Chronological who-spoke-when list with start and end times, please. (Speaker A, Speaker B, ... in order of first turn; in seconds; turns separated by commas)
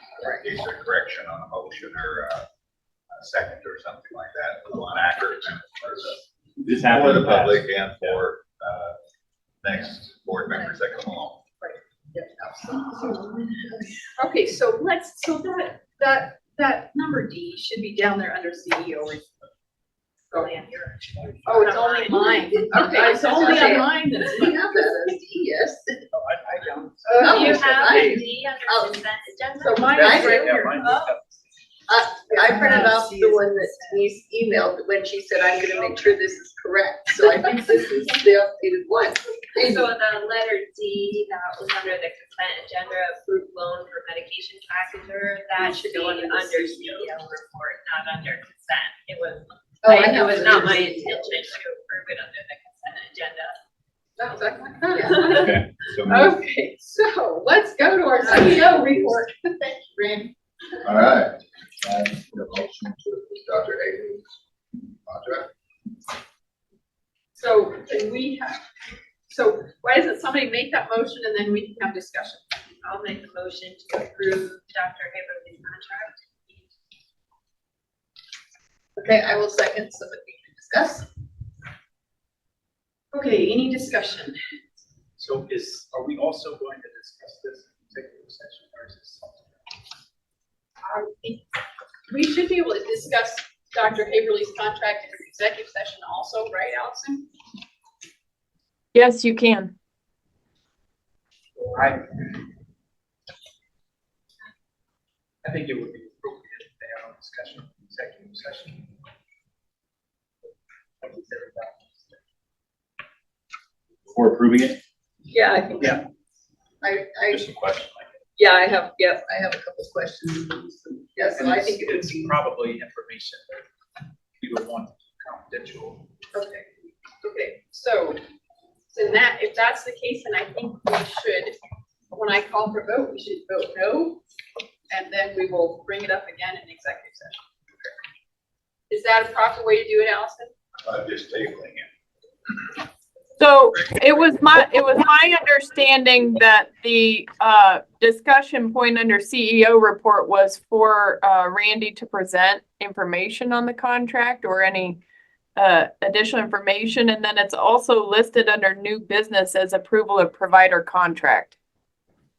Speaker A: 0.2-2.5, Speaker A: 3.1-9.0, Speaker B: 6.6-8.2, Speaker A: 9.6-11.4, Speaker C: 11.6-19.4, Speaker C: 20.3-20.6, Speaker D: 20.3-23.9, Speaker C: 21.4-25.9, Speaker E: 22.5-25.4, Speaker F: 26.1-28.3, Speaker C: 27.1-27.8, Speaker E: 27.2-29.0, Speaker D: 27.2-31.1, Speaker C: 29.6-30.9, Speaker F: 29.8-31.4, Speaker E: 31.9-39.9, Speaker C: 32.3-33.4, Speaker D: 39.5-53.6, Speaker C: 45.6-47.0, Speaker E: 49.8-51.6, Speaker C: 49.9-50.9, Speaker C: 54.2-60.3, Speaker B: 55.2-56.4, Speaker A: 60.8-64.3, Speaker A: 65.1-65.5, Speaker C: 67.3-68.6, Speaker C: 69.3-72.5, Speaker D: 72.8-76.6, Speaker E: 79.0-81.1, Speaker C: 83.1-84.4, Speaker F: 85.2-89.6, Speaker C: 90.8-91.4, Speaker C: 92.1-97.3, Speaker G: 98.9-99.7, Speaker F: 101.6-102.4, Speaker F: 105.4-108.9, Speaker F: 111.0-112.2, Speaker B: 114.1-114.8, Speaker E: 115.3-115.8, Speaker F: 115.8-116.0, Speaker E: 116.8-117.5, Speaker B: 117.3-118.1, Speaker E: 118.5-122.4, Speaker F: 121.4-123.7, Speaker F: 124.4-126.1, Speaker C: 126.3-126.7, Speaker C: 127.2-128.2, Speaker C: 128.9-131.6, Speaker C: 132.1-134.2, Speaker C: 134.9-137.9, Speaker C: 138.9-140.5, Speaker A: 140.8-141.9, Speaker G: 143.4-155.0, Speaker G: 155.6-161.6